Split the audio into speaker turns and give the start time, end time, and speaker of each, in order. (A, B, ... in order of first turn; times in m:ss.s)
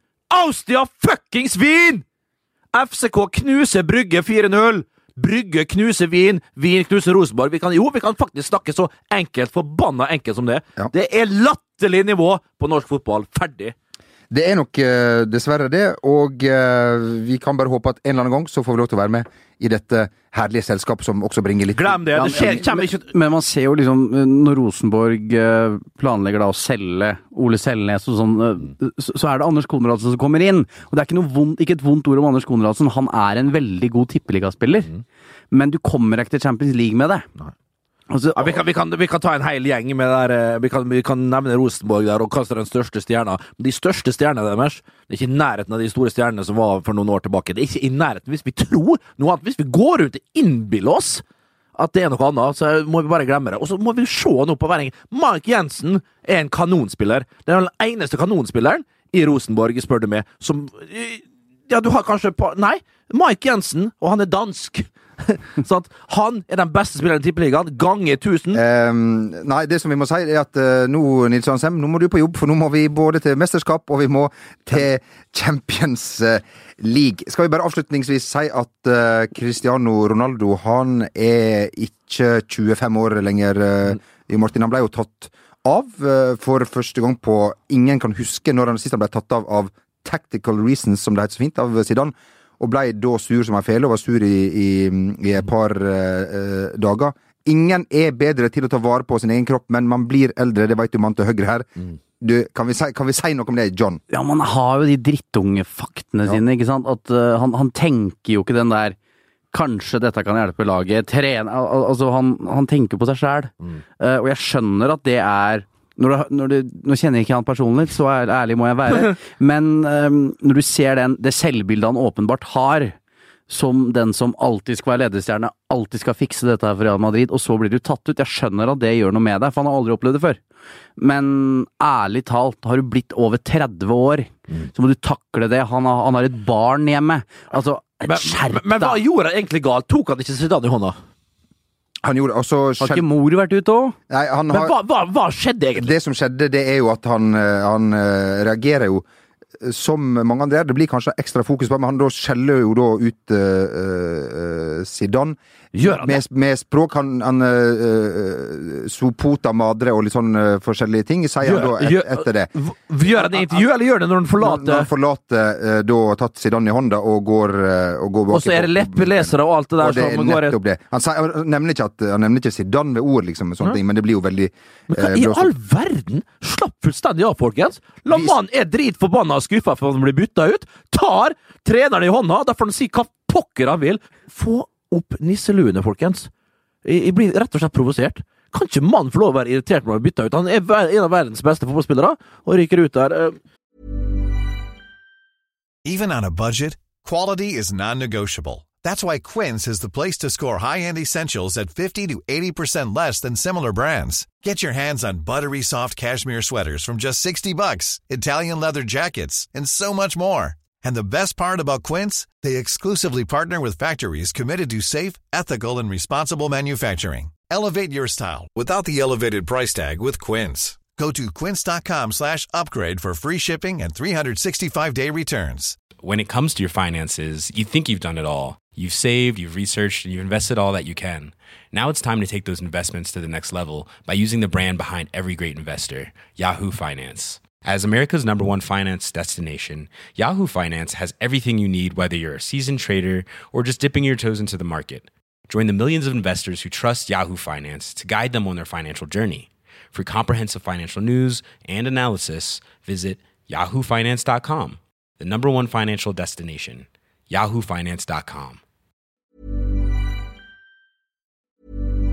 0:00.3-0:02.0 A
0:02.7-0:13.7 A
0:14.3-0:22.6 B
0:21.7-0:23.1 A
0:22.2-0:34.9 C
0:35.5-0:37.3 C
0:38.1-0:38.6 C
0:38.4-0:51.2 A
0:51.8-1:08.6 A
1:08.5-1:44.0 B
1:44.1-1:49.0 C
1:49.5-2:03.0 C
2:03.5-2:10.4 C
2:11.0-2:19.0 C
2:18.1-2:21.0 A
2:22.0-2:23.1 B
2:22.8-2:24.0 C
2:24.1-2:24.8 B
2:24.5-2:25.9 A
2:25.8-2:29.0 B
2:29.6-2:42.5 B
2:35.7-2:36.2 A
2:41.4-2:44.9 A
2:43.1-2:43.5 B
2:44.4-2:55.5 B
2:48.3-2:50.6 A
2:54.9-3:06.3 A
2:58.1-2:58.4 B
3:06.8-3:13.4 A
3:15.8-3:45.8 D
3:46.0-4:18.6 E